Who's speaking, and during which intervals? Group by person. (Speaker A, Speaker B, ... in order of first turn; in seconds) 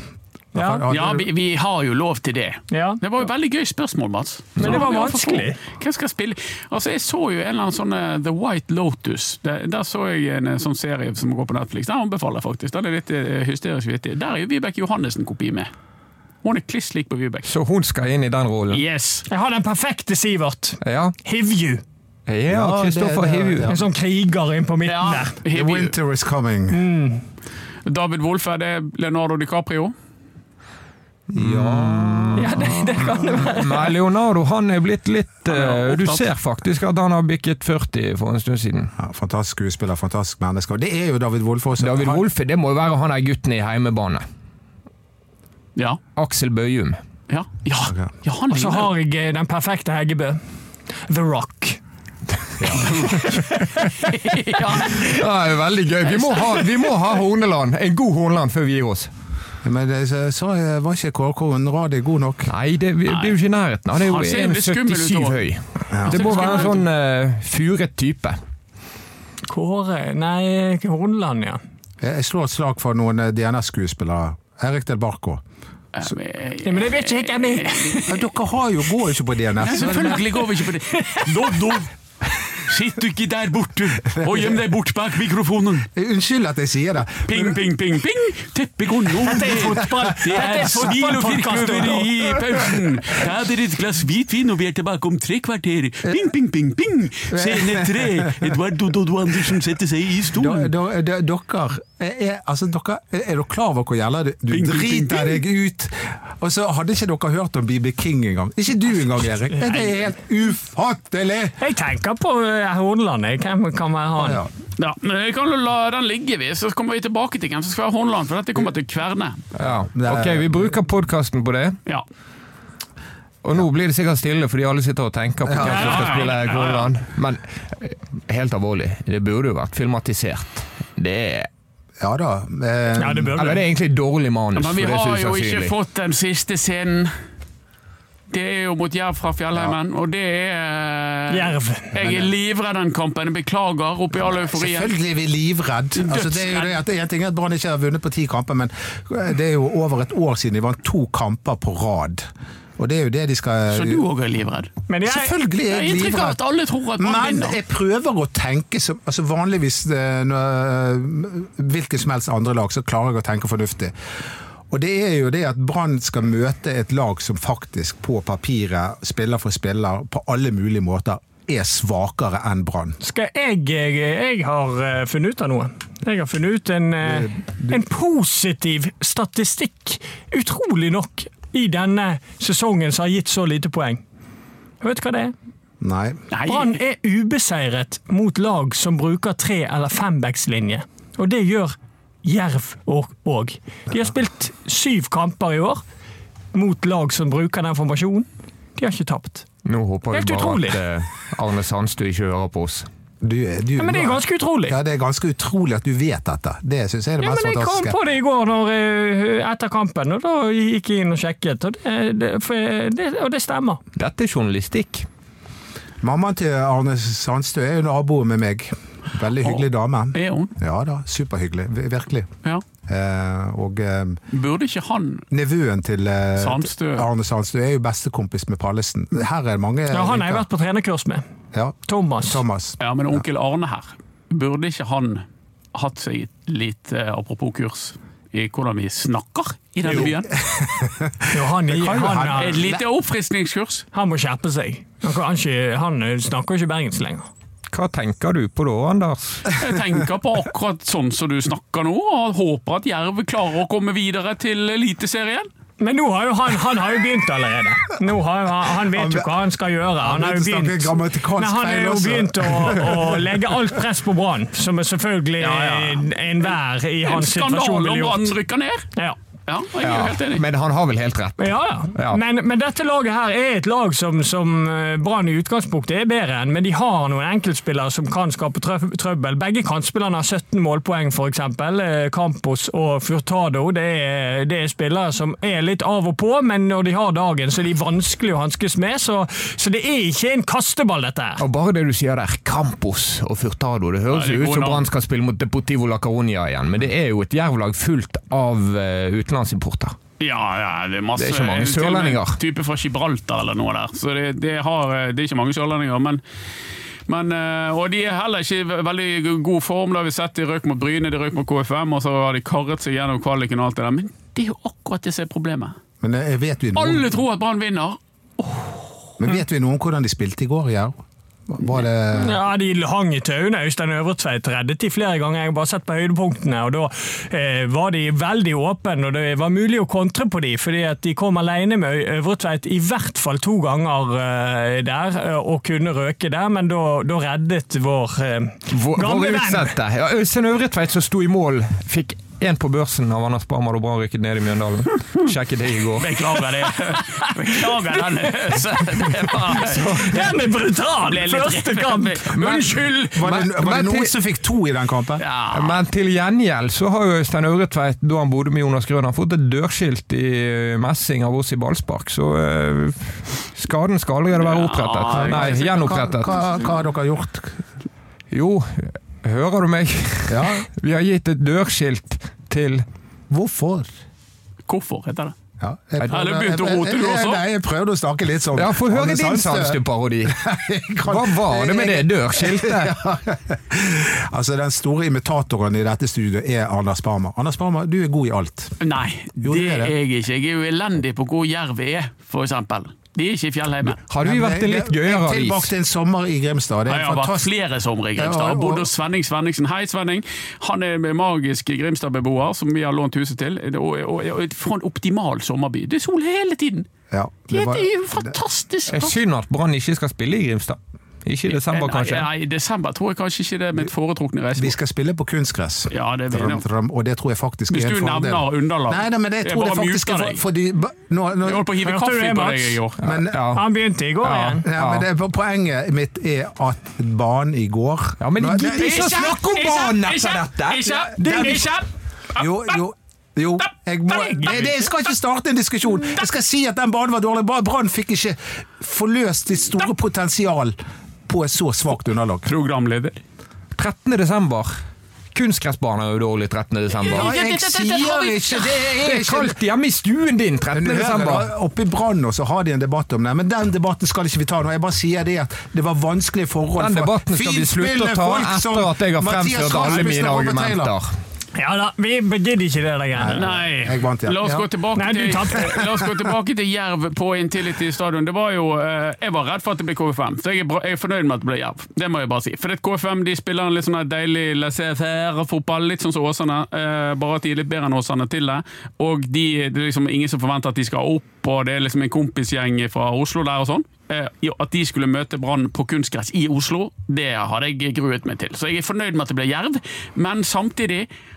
Speaker A: 0.5-1.3, 22.5-23.8, 25.5-26.9, 31.3-32.7, 39.0-42.2, 52.6-53.1, 59.6-62.5, 65.9-66.7, 72.0-75.4, 78.1-80.4, 84.2-84.5, 85.9-87.6, 89.4-90.1, 97.3-98.4, 100.3-111.6, 114.2-114.5, 119.6-120.6, 125.4-126.1, 132.0-133.6, 144.2-154.0, 155.1-156.4, 157.0-163.9, 164.7-173.0, 177.0-177.8, 185.8-186.2, 203.2-208.0, 216.0-222.3, 222.9-224.2, 225.3-230.5, 231.5-232.8, 239.9-242.8, 258.9-259.3, 260.0-263.4, 316.0-317.2, 319.2-322.4, 353.1-355.2, 365.1-367.6, 370.3-370.7, 373.3-373.9, 375.6-388.8, 389.4-389.9, 394.2-397.5, 398.2-398.9, 407.1-408.3, 414.6-421.8, 423.0-423.4, 424.6-429.4, 430.9-431.7, 432.4-442.5, 447.1-449.6, 450.7-460.9, 463.1-464.7
Speaker B: 0.6-0.8, 2.7-3.0, 4.6-5.6, 19.3-21.8, 23.7-25.4, 26.7-27.2, 32.4-33.9, 48.5-50.4, 51.0-51.8, 53.1-53.8, 69.5-71.6, 76.6-78.2, 80.9-81.7, 89.2-92.3, 111.6-114.4, 125.6-126.2, 133.0-133.6, 141.3-142.0, 154.9-155.3, 173.0-184.0, 184.8-185.3, 186.4-195.8, 196.5-199.4, 200.1-200.8, 203.8-204.8, 207.2-213.8, 229.9-231.2, 231.9-232.4, 239.8-240.1, 241.3-242.6, 243.9-247.3, 255.8-268.4, 271.4-291.4, 322.1-339.7, 346.9-347.8, 349.0-352.5, 421.8-422.8, 423.5-424.6, 461.6-463.6, 465.0-466.0
Speaker C: 0.9-15.7, 16.4-17.5, 18.7-19.3, 24.9-25.9, 27.9-29.9, 35.5-36.2, 47.3-48.9, 52.9-55.3, 56.0-57.0, 63.1-63.4, 63.9-65.5, 66.0-66.8, 76.0-78.2, 79.6-81.9, 82.6-85.9, 87.3-100.7, 104.5-105.4, 114.8-119.4, 125.6-126.9, 134.6-137.1, 138.3-144.9, 146.0-146.8, 153.7-154.7, 155.7-157.6, 186.3-186.8, 220.1-220.5, 224.3-225.2, 226.4-227.1, 232.8-240.4, 242.3-243.9, 249.6-255.5, 265.4-266.5, 267.1-268.9, 269.5-270.4, 294.1-294.9, 300.2-306.2, 307.1-315.8, 316.8-318.9, 346.0-350.3, 351.1-353.3, 355.2-355.8, 364.3-366.6, 374.7-375.4, 376.1-377.4, 388.8-394.0, 396.9-406.9, 407.5-409.2, 411.5-414.8, 415.9-416.6, 417.7-420.4, 421.4-423.0, 428.6-432.8, 434.1-434.9, 442.4-443.2, 447.0-448.9, 463.3-491.1
Speaker D: 4.6-4.8, 17.4-18.8, 20.8-21.1, 22.3-23.7, 31.3-38.9, 41.8-44.2, 46.2-47.0, 52.6-53.9, 54.7-59.1, 62.5-68.4, 119.5-121.8, 123.4-131.5, 133.4-135.7, 199.6-202.9, 214.0-215.1, 247.7-249.5, 269.8-272.2, 291.4-300.0, 301.2-302.4, 338.7-346.4, 352.4-354.1, 355.5-366.5, 368.3-372.9, 378.5-380.4, 381.0-383.0, 394.1-395.7, 408.9-412.3, 423.0-423.7, 424.2-425.1, 428.2-431.7, 443.8-444.8, 445.3-447.4, 449.0-451.5, 456.8-461.1